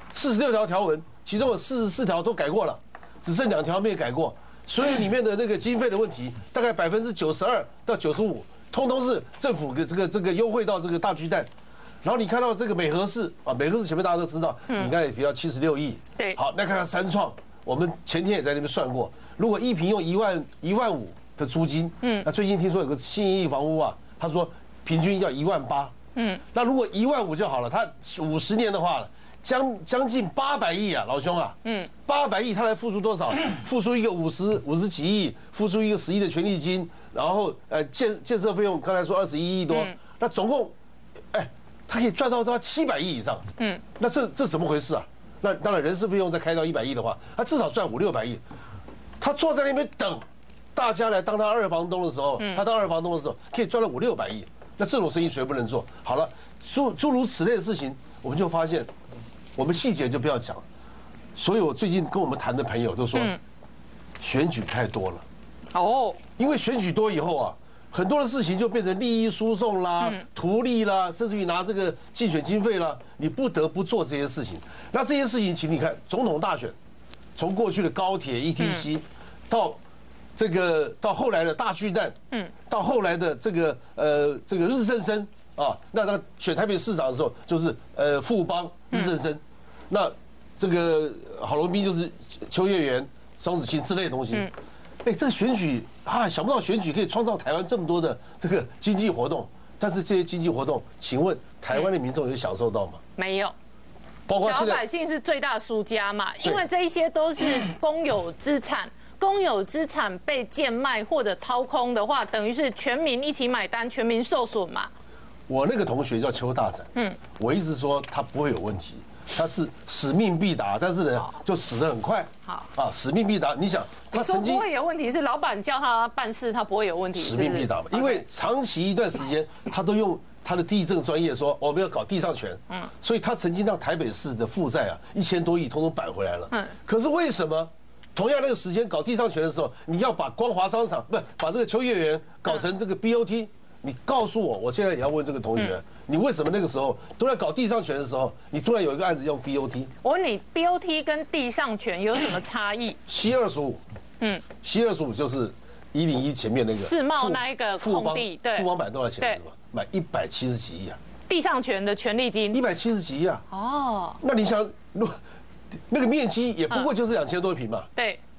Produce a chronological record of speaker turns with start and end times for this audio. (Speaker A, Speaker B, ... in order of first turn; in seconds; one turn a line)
Speaker A: 0.1-11.5
Speaker A: 12.0-25.9
Speaker B: 26.2-26.4
Speaker A: 26.5-40.7
Speaker B: 31.6-31.9
Speaker A: 41.3-43.5
Speaker A: 44.0-48.4
Speaker A: 49.2-50.2
Speaker A: 50.8-58.9
Speaker A: 59.6-60.6
Speaker A: 61.4-63.3
Speaker A: 64.2-65.2
Speaker B: 65.7-66.2
Speaker A: 66.4-76.8
Speaker A: 77.4-79.8
Speaker A: 80.4-82.2
Speaker A: 82.7-94.5
Speaker A: 95.0-103.0
Speaker B: 103.2-103.5
Speaker A: 104.3-104.8
Speaker B: 104.4-114.9
Speaker A: 115.5-124.7
Speaker B: 124.1-128.2
Speaker A: 127.2-149.9
Speaker B: 150.0-153.0
Speaker A: 153.1-153.8
Speaker A: 154.6-161.0
Speaker B: 156.8-158.7
Speaker B: 161.3-162.6
Speaker A: 162.5-163.4
Speaker B: 163.5-164.2
Speaker A: 164.2-165.2
Speaker A: 165.9-167.9
Speaker B: 167.9-168.2